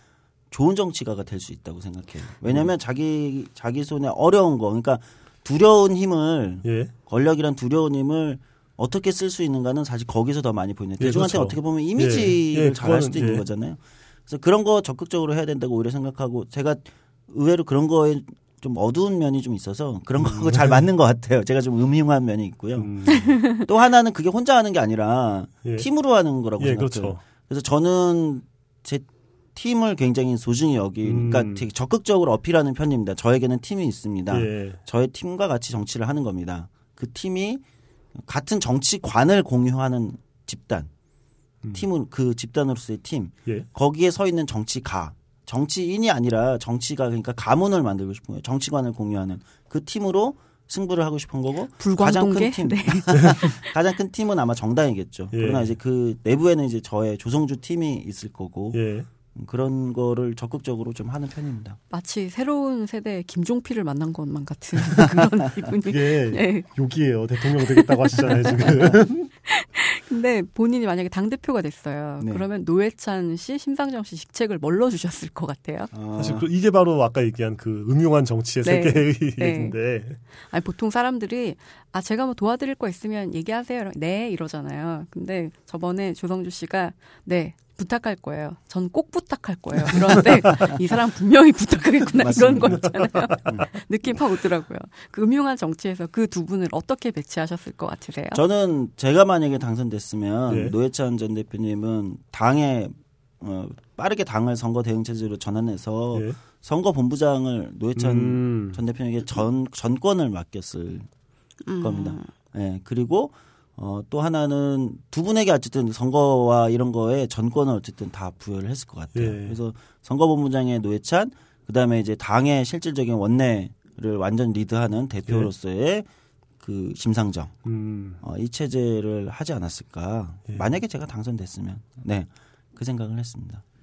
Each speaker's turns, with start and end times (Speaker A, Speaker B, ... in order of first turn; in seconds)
Speaker A: 0.5-37.6, 38.1-40.9, 41.7-58.8, 59.3-61.8, 72.2-72.4, 75.9-76.5, 90.5-90.7, 92.2-92.9, 98.3-111.1, 111.8-126.1, 126.6-127.6, 128.2-133.6
Speaker B: 6.6-6.9, 11.0-13.4, 20.2-20.8, 22.8-23.3, 26.6-27.2, 31.0-31.6, 34.3-34.8, 55.3-55.7, 58.7-59.1, 65.8-69.3, 76.2-80.2, 92.4-93.6, 100.5-100.7, 106.1-106.4, 108.0-108.8, 119.1-119.6, 127.6-128.2
Speaker C: 23.1-23.6, 51.8-53.6, 61.9-66.7, 67.6-68.7, 69.4-75.9, 78.6-79.8, 80.4-98.4, 111.6-112.3